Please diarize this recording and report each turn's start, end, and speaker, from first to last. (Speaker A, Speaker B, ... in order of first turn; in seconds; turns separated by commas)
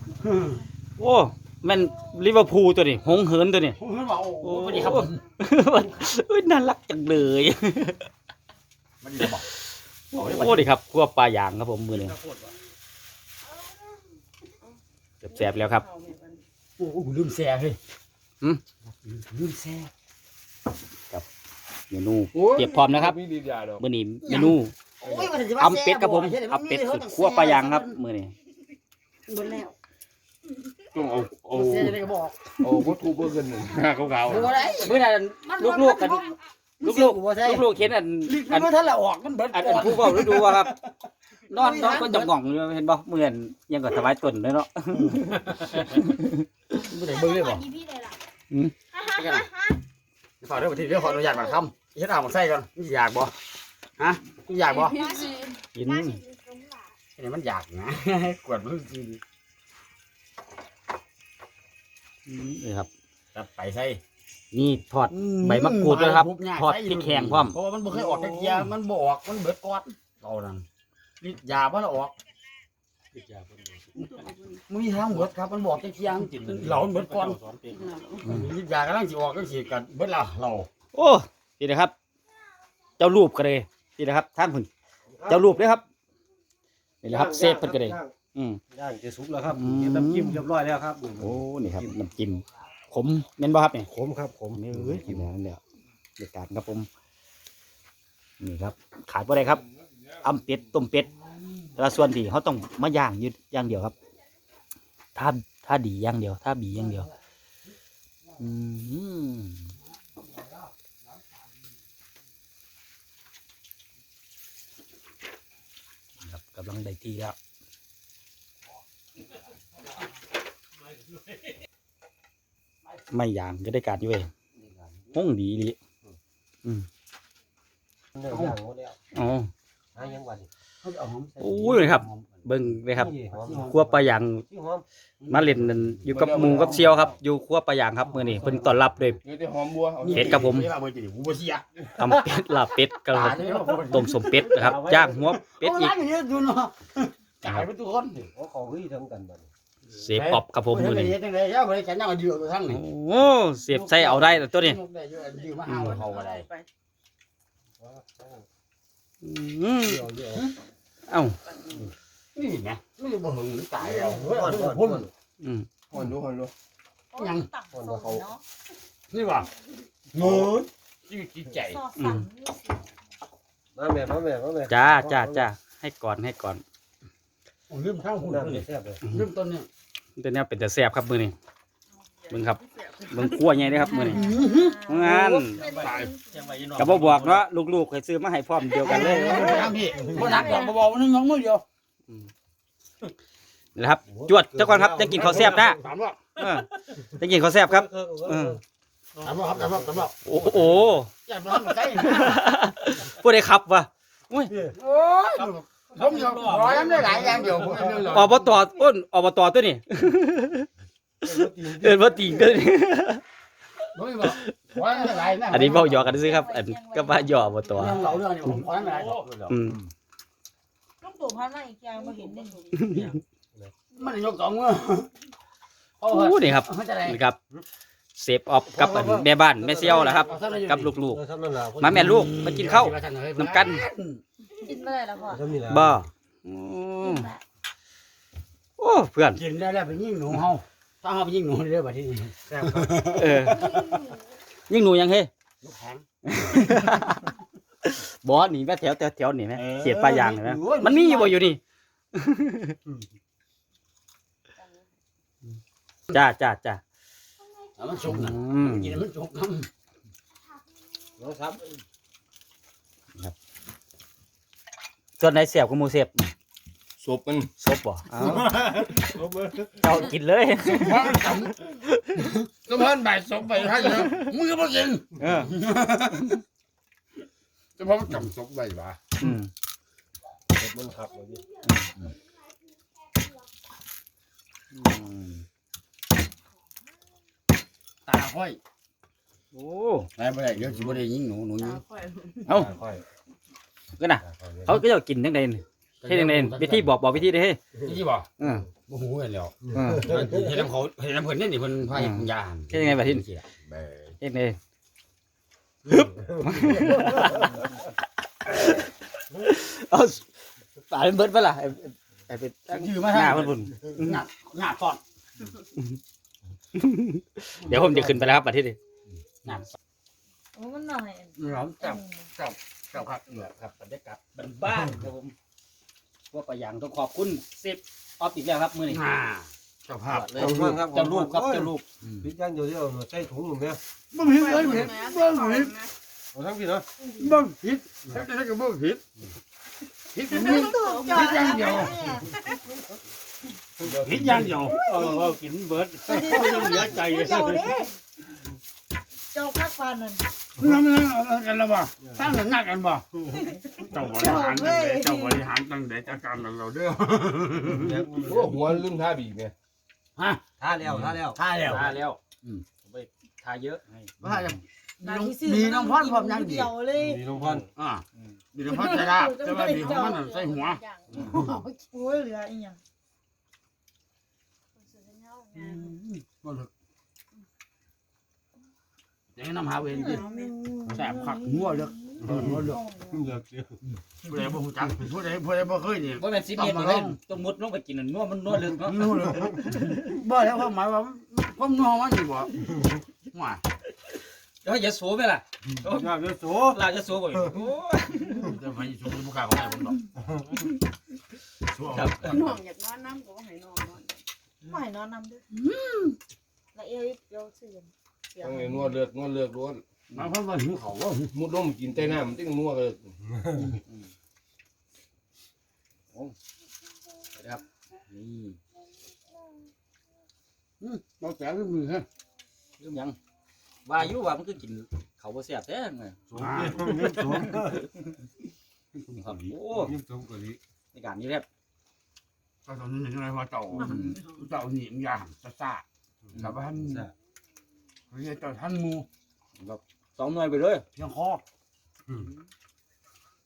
Speaker A: 0.2-0.6, Speaker B: 1.0-3.8, Speaker A: 3.7-5.2, Speaker B: 4.4-8.0, Speaker A: 9.0-9.5, Speaker B: 10.1-12.2, Speaker A: 10.1-10.7, Speaker A: 11.9-12.5, Speaker B: 15.2-15.8, Speaker C: 15.8-16.4, Speaker A: 16.8-17.8, Speaker A: 19.1-19.9, Speaker B: 21.9-23.2, Speaker D: 22.3-23.8, Speaker B: 23.8-24.7, Speaker A: 24.2-27.9, Speaker D: 25.0-25.4, Speaker B: 25.6-28.3, Speaker A: 29.3-29.7, Speaker D: 30.9-32.0, Speaker A: 31.5-32.4, Speaker D: 32.6-34.5, Speaker A: 34.2-37.7, Speaker B: 34.8-38.7, Speaker A: 38.2-42.3, Speaker B: 39.5-40.7, Speaker B: 41.5-46.5, Speaker A: 45.0-46.0, Speaker A: 46.8-47.7, Speaker E: 47.1-48.1, Speaker A: 49.0-49.5, Speaker E: 49.3-49.8, Speaker A: 50.4-53.3, Speaker A: 54.0-55.1, Speaker C: 54.9-55.6, Speaker E: 54.9-55.3, Speaker B: 55.7-56.2, Speaker E: 55.9-56.9, Speaker A: 57.2-59.2, Speaker B: 62.3-62.9, Speaker A: 63.4-64.0, Speaker B: 64.5-68.7, Speaker A: 65.1-70.7, Speaker A: 71.2-72.1, Speaker B: 73.1-74.2, Speaker A: 74.7-80.7, Speaker B: 76.5-77.3, Speaker B: 78.2-78.5, Speaker B: 80.9-81.9, Speaker B: 83.0-84.7, Speaker F: 85.1-85.7, Speaker B: 85.3-85.8, Speaker B: 87.0-88.6, Speaker F: 87.0-88.2, Speaker F: 88.7-91.9, Speaker B: 89.5-90.5, Speaker B: 91.2-93.9, Speaker F: 93.9-95.3, Speaker B: 94.5-95.6, Speaker B: 96.2-96.9, Speaker B: 98.4-99.6, Speaker D: 99.5-100.3, Speaker B: 100.2-101.1, Speaker B: 101.8-104.0, Speaker B: 105.2-107.1, Speaker B: 108.4-109.7, Speaker B: 116.2-117.4, Speaker B: 123.1-124.3, Speaker F: 124.6-125.2, Speaker B: 125.1-125.8, Speaker F: 128.2-129.0, Speaker A: 128.3-128.6, Speaker B: 129.1-129.5, Speaker F: 129.9-130.5, Speaker A: 130.8-133.7, Speaker B: 131.4-134.4, Speaker F: 132.9-134.8, Speaker A: 135.2-137.1, Speaker B: 135.3-139.2, Speaker D: 136.1-136.9, Speaker A: 138.1-139.2, Speaker D: 139.2-140.5, Speaker A: 140.0-142.5, Speaker B: 140.1-140.7, Speaker B: 142.0-145.9, Speaker A: 143.1-148.2, Speaker F: 144.5-145.3, Speaker F: 148.2-149.5, Speaker B: 149.9-151.2, Speaker A: 150.1-152.8, Speaker B: 152.7-154.8, Speaker A: 153.7-156.4, Speaker B: 155.7-156.2, Speaker C: 156.1-156.7, Speaker F: 157.8-158.4, Speaker B: 159.2-160.1, Speaker F: 159.8-160.4, Speaker B: 161.1-161.4, Speaker A: 162.3-165.1, Speaker F: 163.8-165.1, Speaker B: 165.4-165.7, Speaker D: 165.9-166.5, Speaker E: 167.1-168.4, Speaker A: 167.2-167.5, Speaker F: 167.7-168.3, Speaker A: 169.1-169.5, Speaker A: 170.1-171.8, Speaker F: 170.2-170.5, Speaker E: 171.6-172.9, Speaker B: 171.9-172.3, Speaker F: 173.8-175.5, Speaker B: 174.7-176.6, Speaker A: 177.7-179.7, Speaker F: 178.2-179.0, Speaker B: 180.2-181.3, Speaker B: 182.3-189.7, Speaker A: 183.7-186.0, Speaker E: 184.0-186.2, Speaker A: 186.8-187.4, Speaker A: 188.8-191.6, Speaker E: 188.8-190.7, Speaker B: 190.3-190.6, Speaker B: 193.8-195.8, Speaker F: 194.1-195.8, Speaker A: 195.2-196.3, Speaker B: 196.4-198.6, Speaker F: 197.6-198.6, Speaker A: 199.2-200.5, Speaker B: 200.2-201.1, Speaker A: 201.2-202.4, Speaker B: 202.0-204.5, Speaker A: 204.8-208.0, Speaker E: 205.9-207.8, Speaker D: 207.0-208.3, Speaker F: 207.1-208.0, Speaker B: 208.0-210.7, Speaker F: 211.2-212.6, Speaker B: 211.7-213.2, Speaker A: 213.9-216.2, Speaker E: 214.8-218.2, Speaker B: 215.5-218.6, Speaker A: 217.7-219.5, Speaker B: 219.5-219.8, Speaker E: 221.0-222.8, Speaker B: 222.7-223.2, Speaker A: 223.9-225.1, Speaker A: 226.0-227.2, Speaker B: 226.1-227.4, Speaker B: 228.2-231.2, Speaker F: 228.7-232.3, Speaker A: 229.8-231.0, Speaker B: 231.8-233.9, Speaker A: 231.8-234.2, Speaker E: 234.6-235.5, Speaker F: 235.2-236.0, Speaker B: 235.7-237.3, Speaker E: 237.0-237.4, Speaker B: 238.8-239.4, Speaker A: 239.3-244.0, Speaker F: 242.5-243.1, Speaker B: 243.2-243.8, Speaker B: 244.7-245.3, Speaker A: 245.6-246.1, Speaker B: 246.3-247.3, Speaker B: 247.8-251.6, Speaker A: 249.6-251.4, Speaker B: 252.1-252.8, Speaker B: 256.1-256.8, Speaker A: 257.8-259.7, Speaker B: 258.1-259.0, Speaker F: 261.2-261.8, Speaker B: 265.2-266.3, Speaker D: 267.0-267.5, Speaker B: 267.6-268.8, Speaker F: 268.6-269.9, Speaker B: 269.8-271.4, Speaker A: 270.7-271.6, Speaker A: 272.2-276.4, Speaker B: 273.8-274.3, Speaker B: 275.2-275.5, Speaker A: 277.8-279.1, Speaker B: 279.2-279.5, Speaker F: 280.5-281.4, Speaker B: 281.7-282.1, Speaker B: 284.7-285.4, Speaker A: 288.1-288.6, Speaker B: 289.5-290.1, Speaker A: 290.2-291.8, Speaker C: 291.6-292.5, Speaker F: 292.5-293.0, Speaker B: 294.0-297.6, Speaker F: 294.3-294.8, Speaker A: 296.0-296.9, Speaker A: 297.8-298.3, Speaker B: 298.4-298.7, Speaker A: 298.9-304.0, Speaker B: 299.7-300.3, Speaker F: 299.8-300.5, Speaker B: 301.9-303.2, Speaker B: 304.2-304.6, Speaker B: 305.9-307.6, Speaker B: 308.4-310.3, Speaker B: 310.9-314.2, Speaker A: 312.7-315.0, Speaker B: 316.8-318.8, Speaker F: 317.7-318.2, Speaker E: 320.6-322.3, Speaker A: 321.4-323.3, Speaker B: 322.9-325.3, Speaker B: 326.3-329.0, Speaker A: 328.9-330.5, Speaker B: 330.1-331.9, Speaker F: 330.3-333.8, Speaker A: 334.1-335.8, Speaker C: 334.4-335.9, Speaker F: 336.3-336.9, Speaker E: 337.0-337.4, Speaker A: 337.2-339.0, Speaker A: 340.1-342.2, Speaker E: 340.3-342.4, Speaker D: 343.8-344.6, Speaker A: 343.9-347.7, Speaker F: 344.2-344.5, Speaker E: 344.6-345.3, Speaker E: 346.1-347.9, Speaker E: 349.3-350.2, Speaker A: 350.6-357.9, Speaker E: 354.0-355.4, Speaker F: 357.7-358.6, Speaker D: 358.2-359.5, Speaker A: 360.2-360.4, Speaker F: 360.6-361.4, Speaker A: 361.2-362.6, Speaker B: 361.7-362.2, Speaker B: 362.8-364.4, Speaker A: 364.2-366.8, Speaker E: 365.0-367.2, Speaker F: 366.9-367.7, Speaker A: 367.8-368.0, Speaker A: 368.5-371.6, Speaker E: 368.7-370.3, Speaker C: 370.1-371.1, Speaker E: 371.1-372.8, Speaker C: 375.1-375.8, Speaker A: 375.5-376.7, Speaker A: 379.4-380.3, Speaker E: 379.9-383.2, Speaker A: 380.9-382.8, Speaker F: 382.3-383.8, Speaker A: 384.2-387.2, Speaker B: 386.2-390.0, Speaker A: 388.8-392.7, Speaker A: 393.3-393.6, Speaker B: 394.6-398.6, Speaker F: 395.8-396.8, Speaker A: 398.3-400.0, Speaker A: 401.7-402.5, Speaker B: 401.8-402.5, Speaker C: 402.4-404.2, Speaker E: 404.6-405.4, Speaker A: 405.6-406.1, Speaker E: 406.7-408.8, Speaker D: 408.4-409.8, Speaker A: 410.1-411.3, Speaker D: 411.3-413.1, Speaker B: 417.4-418.6, Speaker A: 420.8-422.1, Speaker B: 422.8-423.2, Speaker B: 423.9-426.2, Speaker F: 426.3-427.8, Speaker A: 426.3-427.1, Speaker B: 427.5-427.8, Speaker B: 429.1-430.0, Speaker F: 429.7-430.6, Speaker B: 430.9-431.5, Speaker A: 432.7-435.8, Speaker B: 433.8-434.2, Speaker B: 436.3-436.6, Speaker A: 436.4-437.1, Speaker A: 438.1-439.1, Speaker B: 439.6-440.8, Speaker A: 440.9-441.4